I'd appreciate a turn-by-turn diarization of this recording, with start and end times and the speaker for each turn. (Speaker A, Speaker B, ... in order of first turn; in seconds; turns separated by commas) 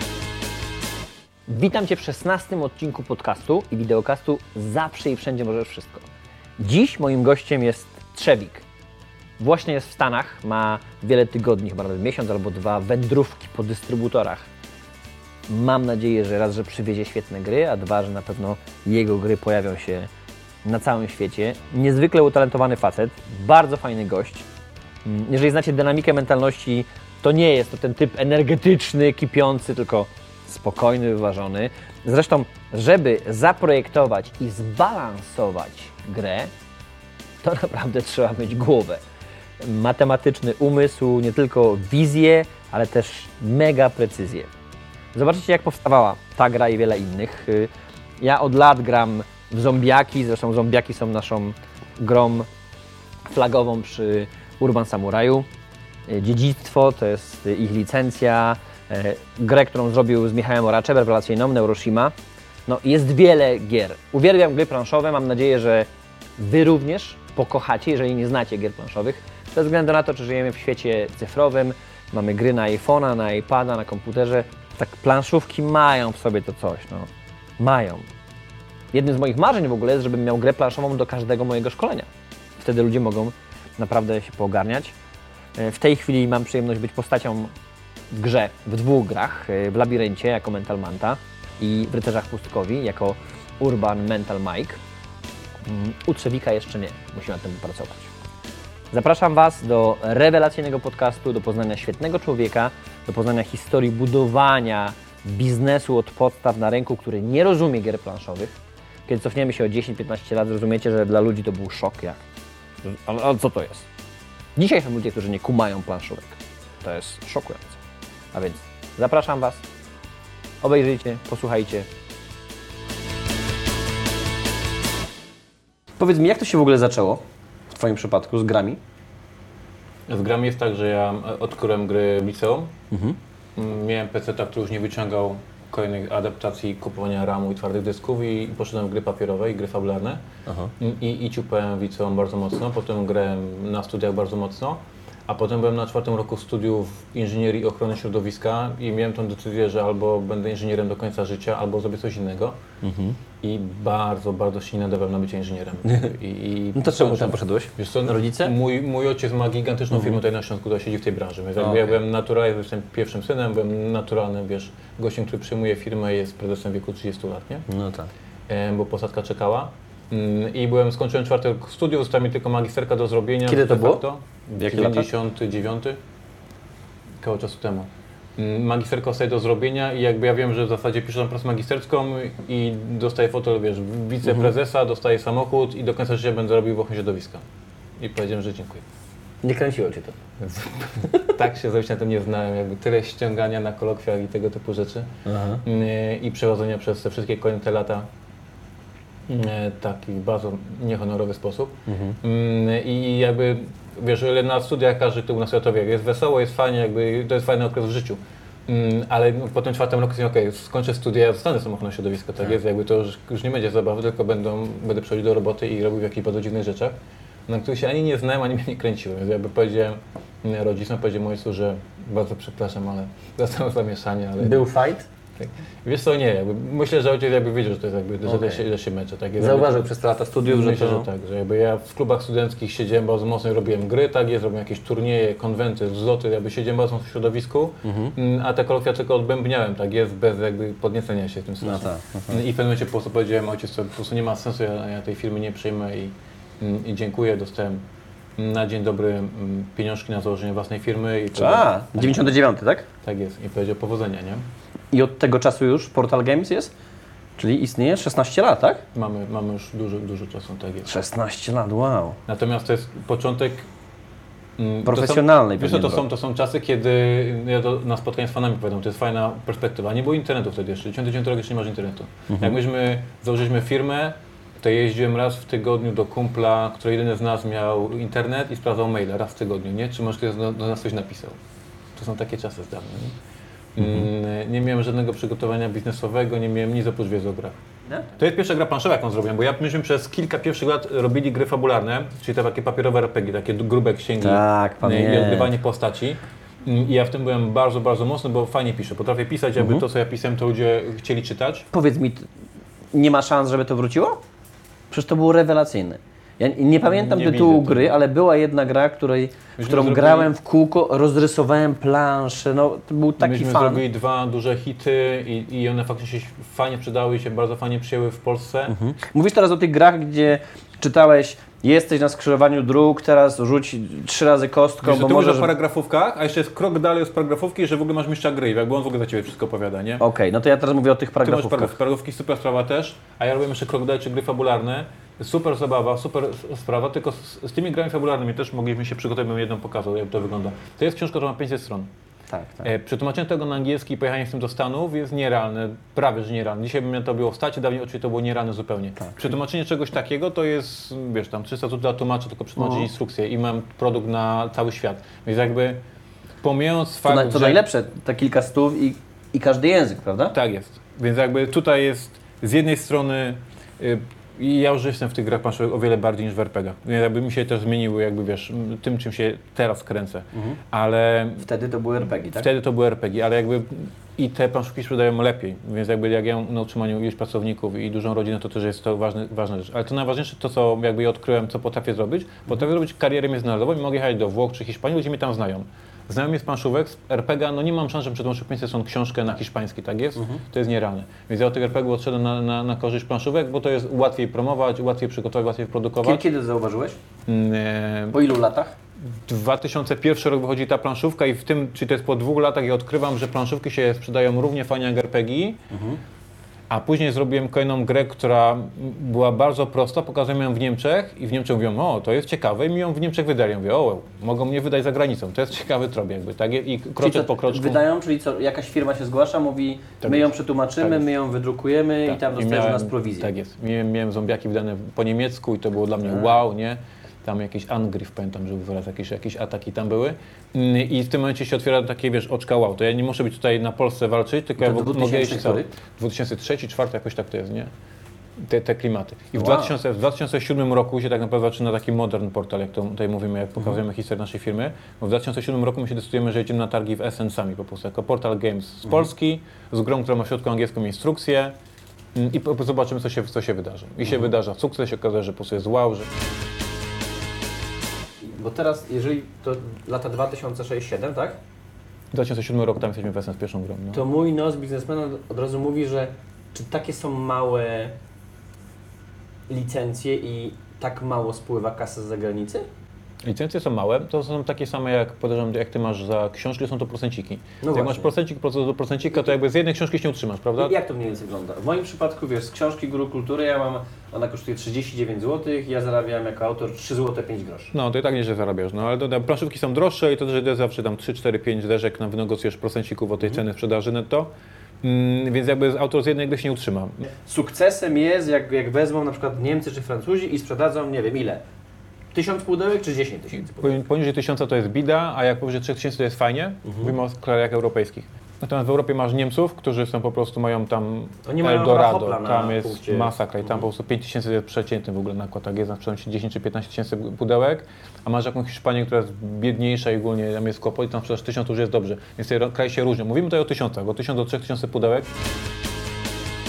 Speaker A: 1.5-8.6, Speaker A: 9.4-14.5, Speaker A: 15.5-20.1, Speaker A: 20.6-24.5, Speaker A: 25.0-36.5, Speaker A: 37.4-39.0, Speaker A: 39.6-44.5, Speaker A: 45.1-52.5, Speaker A: 53.3-55.5, Speaker A: 56.1-62.1, Speaker A: 62.7-78.1, Speaker A: 78.9-85.0, Speaker A: 85.6-87.5, Speaker A: 88.1-94.8, Speaker A: 95.6-98.1, Speaker A: 98.9-108.6, Speaker A: 109.1-112.2, Speaker A: 112.8-113.9, Speaker A: 114.5-117.8, Speaker A: 118.3-119.7, Speaker A: 120.6-121.9, Speaker A: 126.0-128.8, Speaker B: 130.1-132.7, Speaker A: 132.9-133.2, Speaker B: 133.6-140.2, Speaker A: 140.5-140.7, Speaker B: 140.8-152.6, Speaker A: 152.8-153.2, Speaker B: 153.4-167.7, Speaker A: 155.8-156.1, Speaker A: 156.7-158.5, Speaker A: 159.9-160.2, Speaker A: 161.6-162.0, Speaker A: 167.7-168.1, Speaker B: 168.5-176.0, Speaker A: 173.5-174.0, Speaker A: 174.6-175.1, Speaker B: 177.2-187.4, Speaker A: 184.2-184.5, Speaker B: 188.0-188.8, Speaker A: 189.4-191.3, Speaker B: 190.6-198.1, Speaker A: 195.2-195.6, Speaker B: 199.3-216.9, Speaker A: 201.9-202.2, Speaker B: 217.5-224.7, Speaker A: 224.4-225.1, Speaker B: 225.4-229.9, Speaker A: 228.2-228.6, Speaker A: 229.4-231.1, Speaker B: 230.4-247.8, Speaker A: 237.8-238.1, Speaker A: 241.6-242.4, Speaker B: 248.4-252.3, Speaker A: 251.3-252.8, Speaker B: 253.0-254.4, Speaker A: 254.9-256.7, Speaker A: 257.4-258.8, Speaker B: 258.9-260.9, Speaker A: 260.9-262.2, Speaker B: 262.2-263.7, Speaker B: 264.6-281.4, Speaker A: 264.9-266.1, Speaker A: 272.3-272.6, Speaker B: 281.9-283.1, Speaker B: 283.8-287.6, Speaker B: 288.1-301.7, Speaker A: 294.2-295.5, Speaker A: 299.6-299.8, Speaker A: 301.7-302.3, Speaker A: 302.9-304.2, Speaker A: 304.9-313.8, Speaker B: 306.9-307.9, Speaker B: 309.6-310.3, Speaker B: 313.2-318.8, Speaker A: 318.7-325.5, Speaker B: 324.8-330.0, Speaker A: 330.0-331.8, Speaker B: 331.2-341.9, Speaker A: 342.3-342.7, Speaker B: 342.6-355.8, Speaker A: 352.6-352.9, Speaker B: 356.4-357.6, Speaker A: 357.1-360.3, Speaker B: 360.3-371.4, Speaker A: 370.3-370.6, Speaker A: 371.4-372.5, Speaker B: 372.3-396.2, Speaker A: 396.0-397.0, Speaker B: 397.3-398.2, Speaker A: 398.1-398.8, Speaker B: 399.1-405.6, Speaker A: 405.7-406.0, Speaker B: 406.7-417.8, Speaker A: 417.0-423.3, Speaker B: 420.0-421.0, Speaker B: 422.1-437.7, Speaker A: 426.1-426.4, Speaker A: 434.6-435.7, Speaker B: 438.4-451.6, Speaker A: 439.3-439.7, Speaker B: 452.1-456.1, Speaker A: 458.2-461.4, Speaker B: 462.1-464.1, Speaker A: 463.9-467.9, Speaker A: 469.5-472.7, Speaker B: 473.2-480.8, Speaker A: 477.6-478.1, Speaker A: 480.6-487.7, Speaker B: 487.7-494.3, Speaker B: 494.8-497.1, Speaker A: 497.1-501.4, Speaker A: 502.1-503.8, Speaker B: 503.4-525.1, Speaker A: 511.2-513.1